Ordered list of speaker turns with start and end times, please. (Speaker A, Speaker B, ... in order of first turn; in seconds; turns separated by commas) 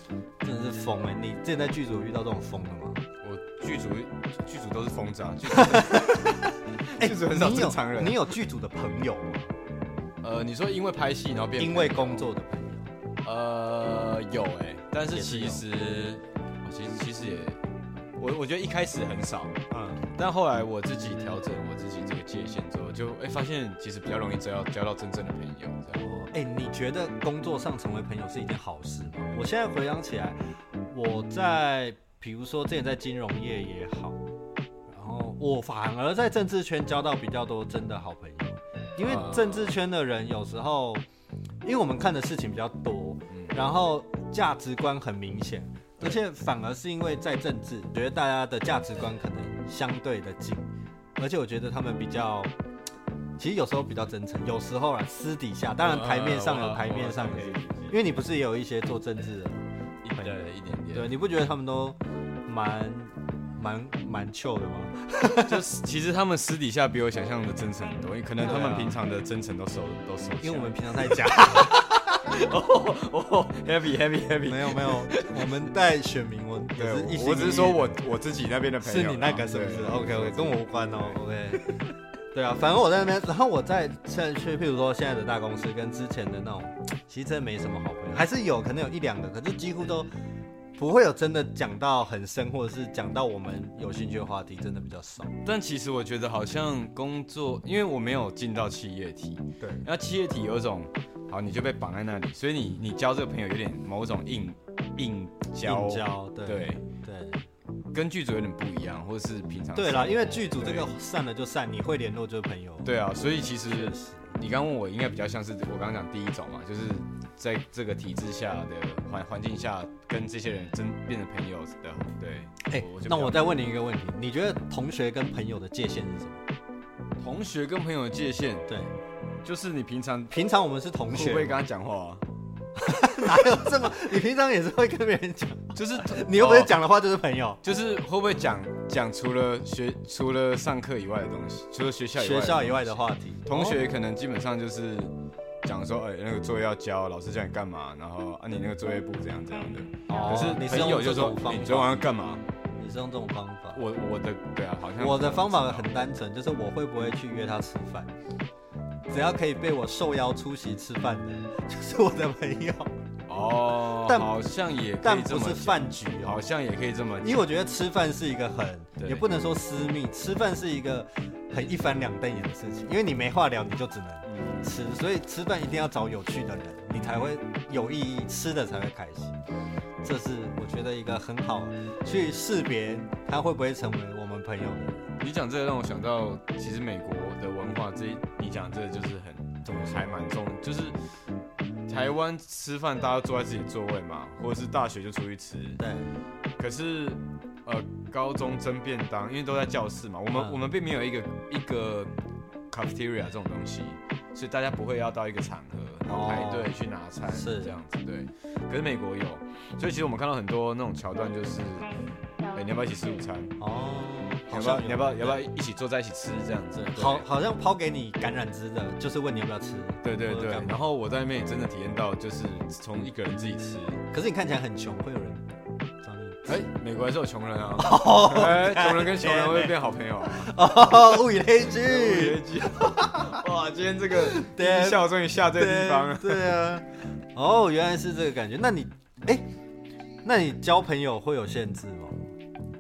Speaker A: 0.4-3.0, Speaker B: 3.2-8.3, Speaker A: 5.5-6.3, Speaker A: 6.9-9.5, Speaker B: 10.2-12.3, Speaker A: 11.6-12.9, Speaker B: 13.2-17.6, Speaker A: 15.1-15.6, Speaker B: 18.2-19.6, Speaker A: 19.7-20.0, Speaker B: 20.1-26.0, Speaker A: 25.9-30.4, Speaker A: 30.9-34.2, Speaker A: 34.9-41.0, Speaker B: 39.0-39.8, Speaker A: 41.6-52.5, Speaker A: 53.4-59.6, Speaker B: 55.8-58.0, Speaker B: 60.0-61.1, Speaker A: 60.9-65.6, Speaker B: 65.4-75.6, Speaker A: 68.4-69.0, Speaker A: 70.4-71.9, Speaker A: 74.5-77.9, Speaker B: 76.8-81.9, Speaker A: 78.8-81.8, Speaker A: 82.3-90.1, Speaker A: 90.8-95.3, Speaker B: 95.4-106.8, Speaker A: 99.6-99.8, Speaker A: 105.6-107.5, Speaker B: 107.9-110.9, Speaker A: 109.8-112.9, Speaker B: 112.8-123.5, Speaker A: 113.7-114.3, Speaker A: 122.7-126.4, Speaker B: 127.2-128.7, Speaker A: 128.7-128.9, Speaker B: 129.4-130.3, Speaker A: 130.3-131.6, Speaker B: 131.1-132.2, Speaker A: 132.8-137.6, Speaker B: 135.8-136.7, Speaker B: 137.6-145.1, Speaker A: 142.2-143.8, Speaker B: 145.6-152.4, Speaker A: 150.1-152.1, Speaker A: 152.8-153.8, Speaker B: 153.7-155.9, Speaker A: 155.0-158.1, Speaker A: 159.1-162.9, Speaker B: 163.3-167.5, Speaker A: 163.9-164.3, Speaker A: 165.0-166.5, Speaker A: 167.2-179.4, Speaker B: 169.0-169.2, Speaker B: 174.3-174.8, Speaker B: 177.0-177.3, Speaker A: 180.0-185.1, Speaker B: 185.2-191.0, Speaker A: 189.7-190.1, Speaker B: 191.9-195.8, Speaker A: 195.8-196.1, Speaker B: 196.6-202.1, Speaker B: 202.7-211.9, Speaker A: 206.1-206.7, Speaker A: 207.3-207.8, Speaker B: 212.5-213.6, Speaker A: 213.6-215.5, Speaker B: 214.5-217.3, Speaker A: 217.0-220.8, Speaker B: 220.0-224.0, Speaker A: 224.1-225.4, Speaker A: 226.0-226.5, Speaker B: 226.5-236.6, Speaker A: 227.8-229.8, Speaker A: 230.3-233.4, Speaker A: 234.2-239.4, Speaker A: 240.2-242.3